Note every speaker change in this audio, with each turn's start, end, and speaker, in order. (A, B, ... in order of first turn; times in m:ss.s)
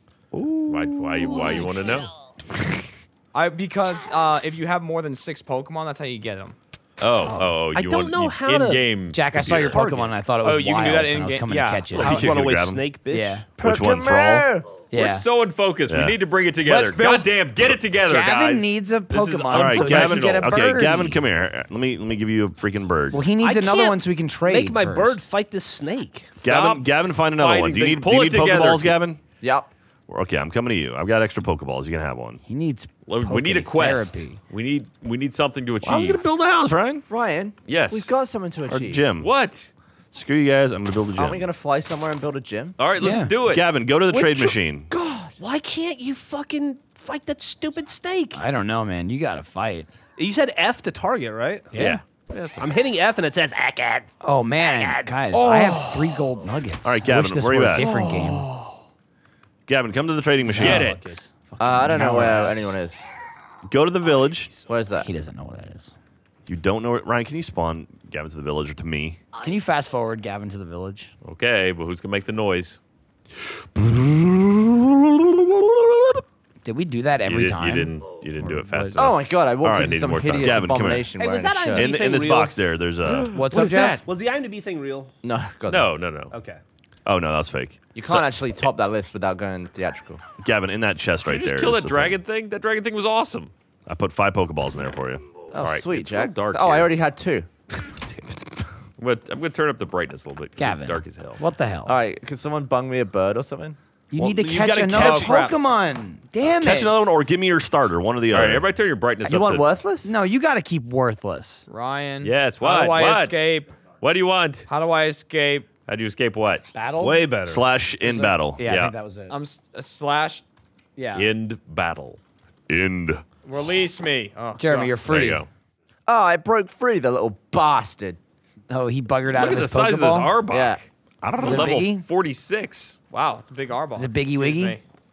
0:00.3-0:01.6 A
0:00.7-0:02.1 B
0:03.3-0:06.6 C
0:07.0-0:10.0 B
0:07.7-0:08.8 D
0:09.1-0:12.2 E
0:09.7-0:10.0 D
0:10.4-0:12.2 C
0:12.0-0:12.8 A
0:12.0-0:13.4 D
0:13.1-0:13.4 E
0:13.6-0:14.5 A
0:13.6-0:14.6 F
0:14.9-0:15.2 E
0:14.9-0:20.6 B
0:15.9-0:16.2 A
0:16.6-0:17.3 C
0:18.0-0:21.2 E
0:19.5-0:23.2 A
0:23.1-0:25.2 E
0:23.4-0:26.8 D
0:26.4-0:29.2 A
0:26.4-0:29.0 B
0:29.4-0:29.7 F
0:30.1-0:32.4 A
0:32.4-0:34.4 E
0:33.0-0:36.3 B
0:35.8-0:37.0 A
0:37.1-0:39.0 F
0:37.7-0:38.1 B
0:38.7-0:39.3 A
0:39.2-0:39.7 B
0:40.1-0:41.4 A
0:41.2-0:42.8 F
0:42.8-0:43.6 B
0:43.0-0:43.3 E
0:43.5-0:44.9 A
0:44.1-0:45.3 F
0:45.4-0:48.4 D
0:48.3-0:49.9 E
0:50.2-0:51.8 D
0:51.7-0:52.8 B
0:51.7-0:52.0 E
0:52.6-0:54.1 D
0:54.2-0:58.5 E
0:54.6-0:55.2 D
0:55.3-0:56.2 C
0:56.8-0:57.9 A
0:57.7-0:58.8 C
0:59.7-1:00.9 A
1:00.5-1:02.7 E
1:00.6-1:01.2 B
1:00.6-1:01.2 D
1:01.6-1:03.0 F
1:03.7-1:04.5 A
1:04.7-1:05.0 F
1:05.0-1:05.9 E
1:06.4-1:09.2 A
1:09.3-1:11.1 E
1:11.2-1:12.8 B
1:13.4-1:16.2 A
1:16.6-1:19.0 E
1:17.2-1:20.6 B
1:18.9-1:21.9 F
1:19.6-1:21.1 A
1:21.2-1:22.6 D
1:21.7-1:23.3 A
1:23.0-1:24.0 B
1:23.3-1:24.0 E
1:24.0-1:25.1 D
1:25.2-1:25.9 F
1:25.7-1:26.3 B
1:26.3-1:26.6 D
1:27.0-1:28.2 A
1:27.9-1:30.2 F
1:30.4-1:32.2 A
1:31.2-1:33.5 B
1:33.8-1:35.2 A
1:35.5-1:37.5 F
1:35.6-1:36.9 B
1:39.0-1:41.4 B
1:40.6-1:41.9 E
1:41.8-1:43.8 F
1:44.1-1:47.1 E
1:44.3-1:45.6 C
1:44.9-1:45.2 A
1:46.4-1:48.7 A
1:48.3-1:49.7 B
1:49.2-1:50.1 F
1:50.0-1:51.6 E
1:51.7-1:53.7 C
1:52.2-1:53.3 B
1:54.0-1:54.7 B
1:54.7-1:55.7 C
1:55.9-1:56.6 B
1:56.7-1:57.3 E
1:57.0-1:57.7 D
1:57.4-1:58.6 A
1:58.0-1:59.4 E
1:58.6-1:58.9 B
1:59.3-2:00.4 C
2:01.0-2:01.3 E
2:01.1-2:02.2 B
2:02.7-2:03.2 A
2:03.4-2:05.0 C
2:04.6-2:05.4 E
2:05.0-2:05.5 B
2:06.1-2:08.2 F
2:08.7-2:10.3 E
2:09.3-2:13.0 B
2:10.5-2:10.8 F
2:11.3-2:11.7 A
2:11.4-2:12.1 E
2:13.1-2:14.8 C
2:14.0-2:14.8 E